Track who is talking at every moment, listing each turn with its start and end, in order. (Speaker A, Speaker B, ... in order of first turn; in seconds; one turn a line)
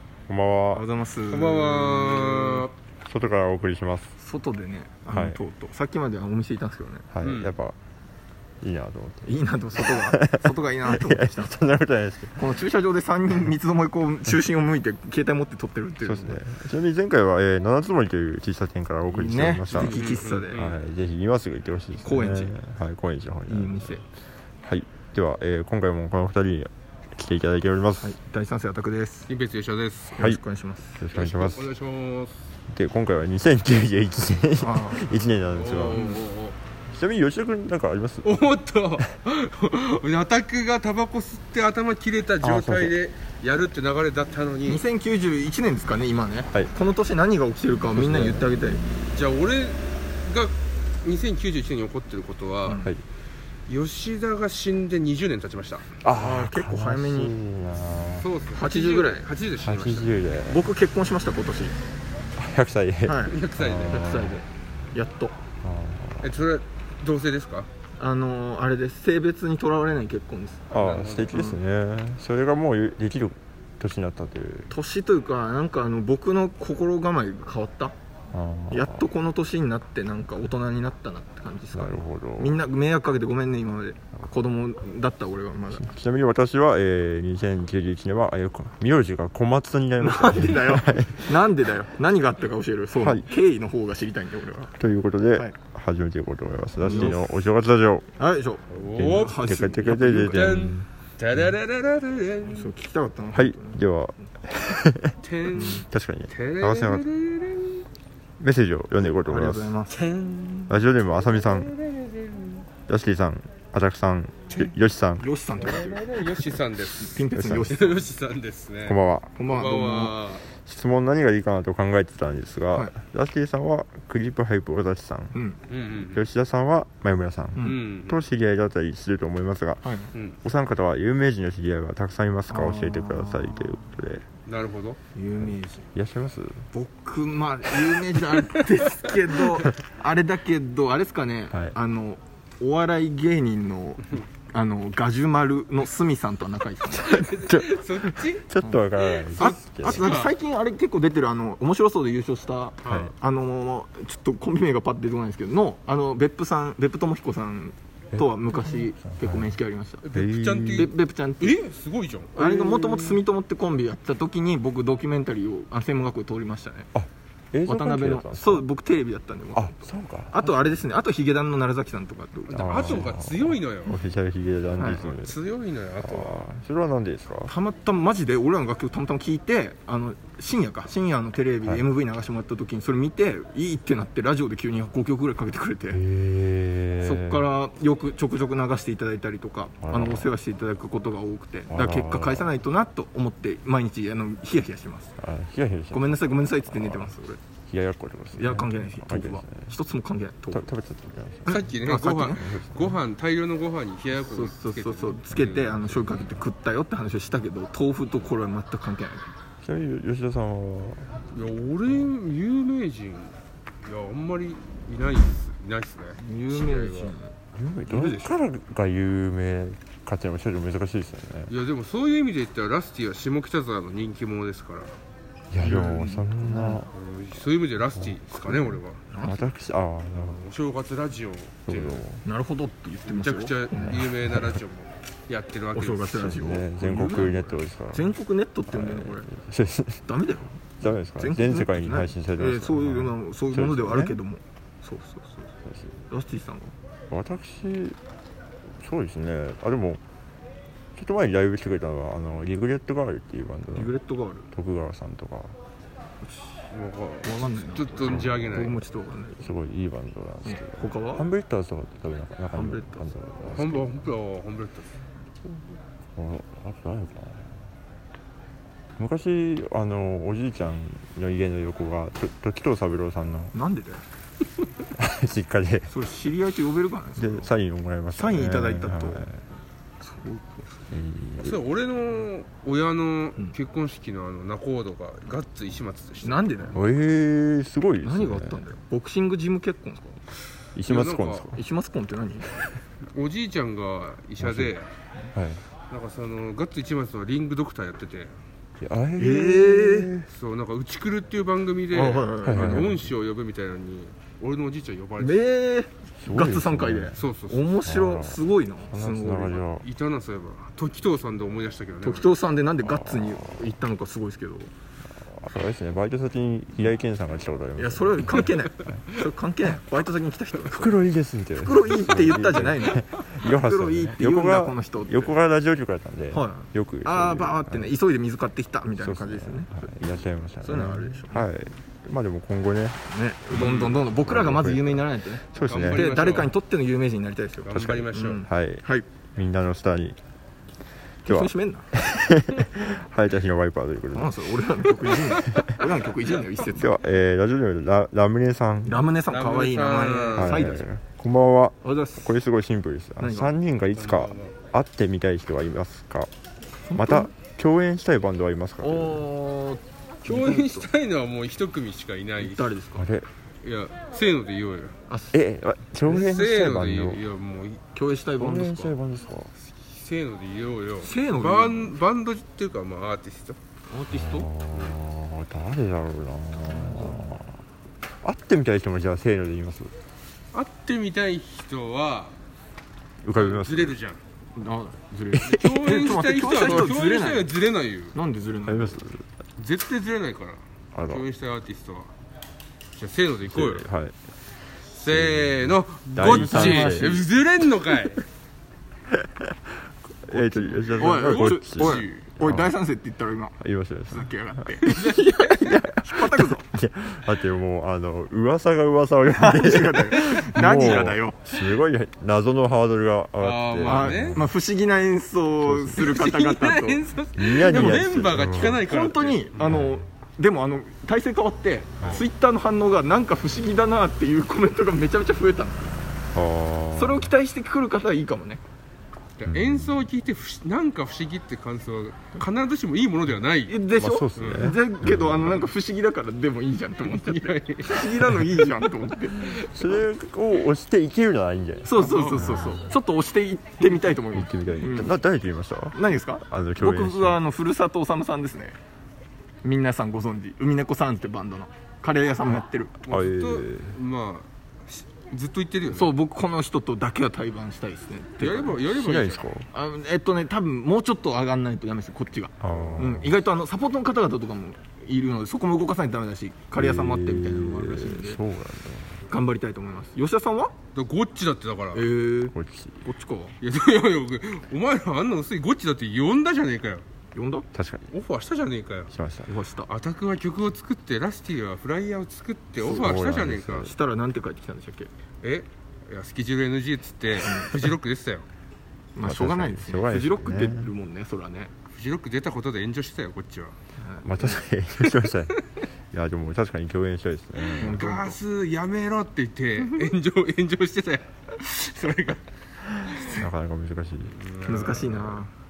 Speaker A: 0.3-0.8
Speaker B: 0.7-2.6
Speaker C: 1.3-2.7
Speaker A: 3.0-4.1
Speaker B: 4.2-7.1
Speaker A: 5.1-5.4
Speaker A: 7.1-7.8
Speaker C: 7.2-7.5
Speaker A: 8.6-12.4
Speaker B: 9.2-11.5
Speaker B: 12.4-16.4
Speaker A: 16.0-24.0
Speaker B: 19.1-20.6
Speaker C: 19.7-20.8
Speaker B: 22.0-22.5
Speaker B: 23.5-24.0
Speaker A: 24.6-28.1
Speaker B: 28.0-29.3
Speaker C: 29.3-30.3
Speaker B: 30.2-31.0
Speaker A: 31.0-31.7
Speaker C: 31.1-32.5
Speaker A: 32.7-36.1
Speaker B: 34.6-35.1
Speaker C: 35.5-36.6
Speaker B: 35.9-36.3
Speaker A: 36.9-38.5
Speaker C: 38.2-44.8
Speaker A: 42.4-42.9
Speaker B: 44.6-48.9
Speaker A: 47.9-48.5
Speaker C: 49.1-52.9
Speaker B: 52.6-52.9
Speaker C: 53.7-55.9
Speaker A: 56.0-58.3
Speaker B: 56.2-57.4
Speaker C: 58.2-60.1
Speaker B: 58.5-59.3
Speaker A: 59.6-60.6
Speaker B: 60.5-61.8
Speaker A: 62.4-64.4
Speaker B: 63.1-65.4
Speaker C: 63.2-64.3
Speaker A: 65.6-66.3
Speaker C: 66.2-67.7
Speaker B: 68.0-70.7
Speaker A: 70.7-74.7
Speaker C: 70.7-71.4
Speaker B: 71.3-71.6
Speaker B: 74.7-77.9
Speaker A: 78.3-79.0
Speaker B: 78.7-85.9
Speaker A: 81.7-82.6
Speaker A: 85.8-91.3
Speaker B: 90.0-94.7
Speaker A: 93.0-93.3
Speaker A: 94.8-98.1
Speaker B: 96.8-97.2
Speaker B: 98.2-100.6
Speaker C: 98.7-99.4
Speaker A: 99.0-100.9
Speaker C: 100.3-102.7
Speaker B: 102.5-103.8
Speaker A: 103.3-107.0
Speaker C: 105.2-107.8
Speaker B: 105.5-105.8
Speaker A: 108.4-109.7
Speaker B: 109.1-110.0
Speaker C: 109.9-112.7
Speaker A: 110.7-111.7
Speaker A: 112.9-115.2
Speaker B: 115.2-118.1
Speaker C: 115.6-120.5
Speaker A: 117.3-117.8
Speaker A: 118.8-119.3
Speaker B: 119.3-120.2
Speaker A: 120.5-125.3
Speaker B: 125.3-125.6
Speaker C: 125.7-126.2
Speaker A: 126.0-129.9
Speaker C: 127.6-128.2
Speaker B: 129.8-130.1
Speaker C: 130.1-130.4
Speaker A: 130.4-134.2
Speaker B: 132.5-133.8
Speaker C: 134.4-135.0
Speaker B: 135.1-135.9
Speaker A: 135.4-136.7
Speaker B: 136.7-147.2
Speaker A: 141.5-141.8
Speaker C: 146.9-148.4
Speaker A: 147.0-150.1
Speaker C: 149.0-150.3
Speaker B: 149.3-160.0
Speaker C: 152.8-153.1
Speaker A: 152.8-153.1
Speaker A: 158.1-159.6
Speaker C: 160.0-162.8
Speaker A: 160.1-160.9
Speaker B: 160.7-161.6
Speaker B: 162.3-166.9
Speaker A: 162.6-163.1
Speaker A: 166.9-168.6
Speaker B: 167.7-173.1
Speaker A: 169.5-170.8
Speaker C: 172.4-173.9
Speaker A: 172.5-175.4
Speaker C: 174.8-176.4
Speaker A: 176.0-177.5
Speaker B: 177.4-186.0
Speaker A: 185.9-187.5
Speaker B: 187.0-195.1
Speaker A: 189.8-190.3
Speaker A: 191.7-192.5
Speaker A: 195.2-197.1
Speaker B: 195.9-197.4
Speaker A: 197.7-199.7
Speaker B: 198.3-200.7
Speaker A: 200.5-201.7
Speaker B: 201.4-202.5
Speaker C: 201.4-205.9
Speaker A: 202.3-203.0
Speaker B: 204.2-209.3
Speaker A: 205.8-206.1
Speaker A: 209.6-211.3
Speaker C: 211.3-217.1
Speaker B: 216.2-217.3
Speaker A: 217.5-221.5
Speaker C: 217.9-218.4
Speaker C: 221.5-224.9
Speaker A: 225.5-226.9
Speaker B: 225.6-226.8
Speaker C: 226.9-229.0
Speaker A: 227.8-230.4
Speaker B: 229.1-229.4
Speaker C: 230.2-232.0
Speaker A: 231.7-232.2
Speaker B: 232.2-234.0
Speaker C: 233.0-236.4
Speaker A: 233.7-234.6
Speaker B: 235.7-239.3
Speaker A: 236.1-238.1
Speaker A: 238.7-240.1
Speaker B: 240.0-240.6
Speaker A: 240.8-244.2
Speaker B: 241.2-245.5
Speaker A: 245.7-245.9
Speaker B: 246.1-246.7
Speaker A: 247.1-248.0
Speaker A: 248.8-250.0
Speaker A: 250.9-253.9
Speaker B: 253.7-254.5
Speaker A: 254.5-255.6
Speaker B: 256.2-256.5
Speaker C: 256.7-258.8
Speaker B: 257.2-259.5
Speaker A: 258.0-258.6
Speaker A: 259.4-264.1
Speaker B: 260.4-261.3
Speaker B: 262.5-263.1
Speaker C: 263.5-264.9
Speaker A: 266.1-267.6
Speaker A: 269.0-273.5
Speaker B: 273.5-274.0
Speaker A: 275.0-275.9
Speaker B: 275.9-277.5
Speaker A: 277.1-279.4
Speaker B: 278.1-279.3
Speaker B: 280.0-280.7
Speaker A: 280.9-281.6
Speaker C: 281.4-286.4
Speaker B: 286.2-286.8
Speaker A: 286.7-288.6
Speaker B: 288.0-290.2
Speaker A: 290.8-291.6
Speaker C: 290.8-291.5
Speaker B: 291.5-292.6
Speaker C: 293.1-294.9
Speaker A: 294.4-294.7
Speaker A: 295.3-295.6
Speaker C: 295.9-298.3
Speaker A: 298.8-300.3
Speaker B: 299.2-300.1
Speaker C: 300.2-305.5
Speaker B: 301.9-303.1
Speaker A: 302.4-303.1
Speaker B: 305.2-309.6
Speaker A: 306.2-307.2
Speaker C: 307.1-307.7
Speaker A: 307.8-308.4
Speaker A: 308.9-309.9
Speaker C: 309.8-312.3
Speaker B: 312.0-314.7
Speaker A: 312.8-313.6
Speaker A: 315.2-319.0
Speaker B: 317.8-321.0
Speaker A: 320.7-327.9
Speaker B: 321.6-325.4
Speaker B: 326.3-330.0
Speaker A: 329.0-333.0
Speaker B: 330.6-331.4
Speaker B: 333.0-339.1
Speaker C: 333.5-334.0
Speaker A: 333.6-336.1
Speaker C: 335.6-336.5
Speaker C: 337.6-338.4
Speaker A: 337.7-340.2
Speaker B: 341.2-341.9
Speaker A: 341.2-345.7
Speaker B: 344.1-346.9
Speaker A: 346.8-349.0
Speaker B: 348.9-350.9
Speaker C: 349.3-350.7
Speaker A: 350.3-356.3
Speaker B: 351.8-352.4
Speaker B: 353.2-353.5
Speaker C: 353.9-354.5
Speaker B: 356.9-357.3
Speaker A: 356.9-359.2
Speaker B: 358.8-360.9
Speaker C: 360.2-362.7
Speaker B: 362.4-363.1
Speaker A: 362.9-363.3
Speaker C: 363.6-364.9
Speaker B: 365.1-365.4
Speaker A: 365.3-367.2
Speaker C: 366.1-367.8
Speaker B: 367.9-368.9
Speaker A: 368.4-369.5
Speaker C: 369.7-373.6
Speaker B: 371.0-372.0
Speaker B: 373.9-374.9
Speaker A: 374.1-377.5
Speaker B: 376.7-377.3
Speaker A: 378.2-379.9
Speaker C: 380.5-382.3
Speaker A: 383.2-384.0
Speaker C: 383.3-384.2
Speaker B: 384.5-387.5
Speaker C: 385.4-388.1
Speaker B: 388.1-389.0
Speaker A: 388.6-389.2
Speaker C: 389.6-392.1
Speaker A: 390.9-391.3
Speaker C: 392.9-393.9
Speaker A: 393.5-394.1
Speaker C: 394.9-398.2
Speaker A: 395.1-397.3
Speaker B: 396.2-397.2
Speaker A: 399.1-399.5
Speaker A: 400.2-402.7
Speaker B: 400.3-403.6
Speaker C: 401.0-402.2
Speaker A: 403.6-414.5
Speaker B: 404.1-405.1
Speaker C: 404.8-405.7
Speaker B: 405.6-406.6
Speaker B: 409.4-411.4
Speaker C: 413.4-414.4
Speaker B: 413.8-417.1
Speaker A: 415.6-416.0
Speaker C: 415.9-419.6
Speaker A: 417.3-418.8
Speaker B: 417.6-425.9
Speaker A: 419.6-420.0
Speaker C: 422.0-422.3
Speaker A: 426.3-427.3
Speaker B: 426.9-428.6
Speaker C: 429.4-434.7
Speaker A: 429.5-430.1
Speaker B: 433.7-439.6
Speaker A: 433.9-435.6
Speaker C: 437.0-438.7
Speaker A: 439.5-442.9
Speaker B: 441.8-445.1
Speaker C: 441.9-442.7
Speaker A: 444.3-447.4
Speaker B: 445.9-448.8
Speaker B: 449.6-452.9
Speaker C: 453.0-456.1
Speaker A: 453.1-453.9
Speaker B: 455.9-458.9
Speaker C: 458.4-459.4
Speaker A: 458.9-459.7
Speaker B: 459.6-468.4
Speaker A: 462.6-463.4
Speaker C: 462.7-463.1
Speaker A: 466.8-469.2
Speaker B: 469.3-470.7
Speaker C: 470.9-472.1
Speaker B: 471.9-473.6
Speaker A: 472.5-473.0
Speaker C: 473.6-477.0
Speaker B: 477.3-477.7
Speaker A: 477.7-478.1
Speaker C: 478.1-479.1
Speaker A: 479.1-479.5
Speaker B: 479.4-479.9
Speaker C: 479.8-483.9
Speaker A: 482.8-484.0
Speaker B: 482.9-483.2
Speaker B: 483.8-485.1
Speaker C: 485.4-488.4
Speaker B: 487.4-487.8
Speaker B: 489.1-491.7
Speaker A: 489.2-490.9
Speaker C: 491.9-493.7
Speaker B: 494.0-494.6
Speaker A: 494.2-495.6
Speaker C: 495.0-495.5
Speaker A: 496.1-498.0
Speaker C: 497.7-502.4
Speaker B: 497.8-498.4
Speaker C: 503.1-503.4
Speaker A: 503.3-505.2
Speaker C: 504.3-505.4
Speaker B: 504.6-505.5